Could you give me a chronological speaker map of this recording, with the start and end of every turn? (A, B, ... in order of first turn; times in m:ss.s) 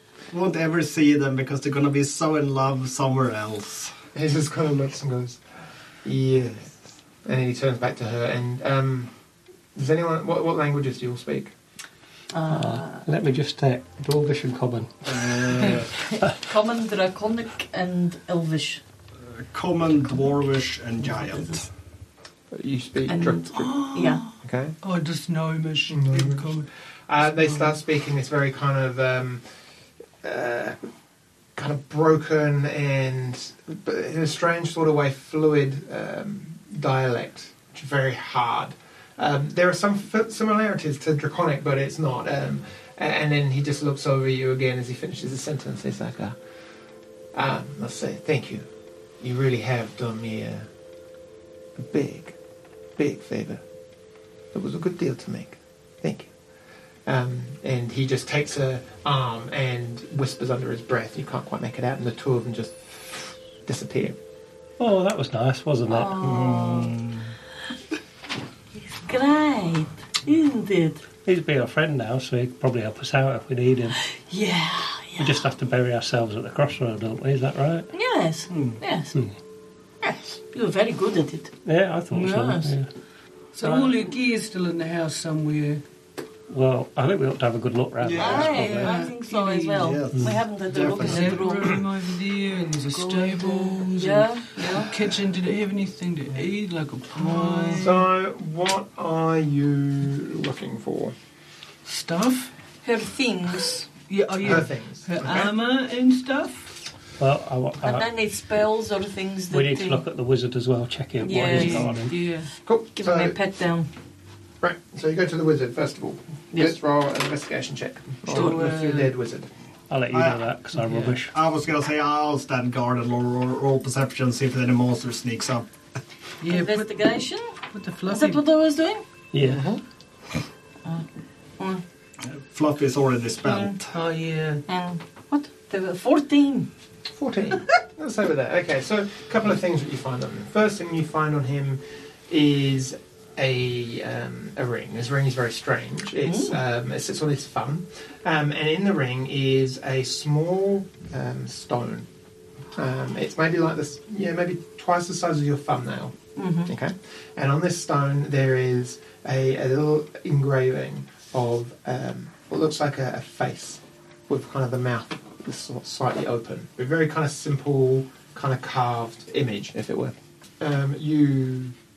0:00.3-0:03.9 A
0:04.1-0:05.4 B
0:06.0-0:09.1 B
0:09.8-0:11.5 B
0:12.3-0:13.0 C
0:12.5-0:16.3 D
0:15.1-0:15.9 A
0:15.6-0:18.8 C
0:19.2-0:21.7 A
0:22.5-0:23.7 B
0:23.1-0:24.2 C
0:23.6-0:24.3 E
0:24.4-0:24.8 B
0:24.8-0:26.7 E
0:25.9-0:26.5 B
0:27.1-0:29.4 B
0:30.2-0:30.8 B
0:31.6-0:46.4 B
0:47.3-0:48.7 B
0:49.2-0:50.7 B
0:51.8-0:52.4 B
0:53.0-0:53.6 B
0:54.5-0:56.3 B
0:57.1-1:04.2 B
1:04.8-1:06.2 D
1:05.9-1:07.0 C
1:06.2-1:07.3 A
1:08.8-1:11.0 C
1:11.2-1:14.0 D
1:14.2-1:15.5 C
1:15.2-1:17.9 D
1:17.9-1:19.2 C
1:18.5-1:18.8 A
1:20.0-1:21.5 C
1:21.6-1:22.9 D
1:22.1-1:22.7 C
1:23.6-1:25.8 E
1:23.6-1:23.9 D
1:26.5-1:29.0 D
1:28.0-1:28.6 A
1:28.1-1:29.9 E
1:28.2-1:31.8 C
1:29.8-1:31.7 A
1:31.0-1:38.1 E
1:32.9-1:34.9 C
1:37.7-1:41.2 B
1:41.8-1:42.5 E
1:42.8-1:43.9 C
1:44.1-1:46.7 E
1:44.4-1:45.5 B
1:47.2-1:48.1 D
1:47.8-1:50.0 C
1:49.5-1:52.1 D
1:51.2-1:51.9 C
1:51.5-1:52.5 E
1:52.6-1:53.4 B
1:53.0-1:53.9 C
1:54.6-1:59.5 B
1:58.3-1:59.0 C
1:58.3-1:59.1 E
1:59.9-2:01.3 D
2:00.1-2:00.5 A
2:01.1-2:05.7 A
2:06.4-2:07.0 E
2:06.5-2:07.6 C
2:07.7-2:08.4 E
2:08.1-2:09.0 C
2:09.3-2:09.6 D
2:09.4-2:09.8 B
2:12.2-2:14.0 A
2:13.4-2:13.8 C
2:13.9-2:14.6 E
2:14.7-2:16.7 C
2:17.1-2:32.1 B
2:26.3-2:26.6 C
2:32.8-2:51.8 B
2:36.4-2:36.7 C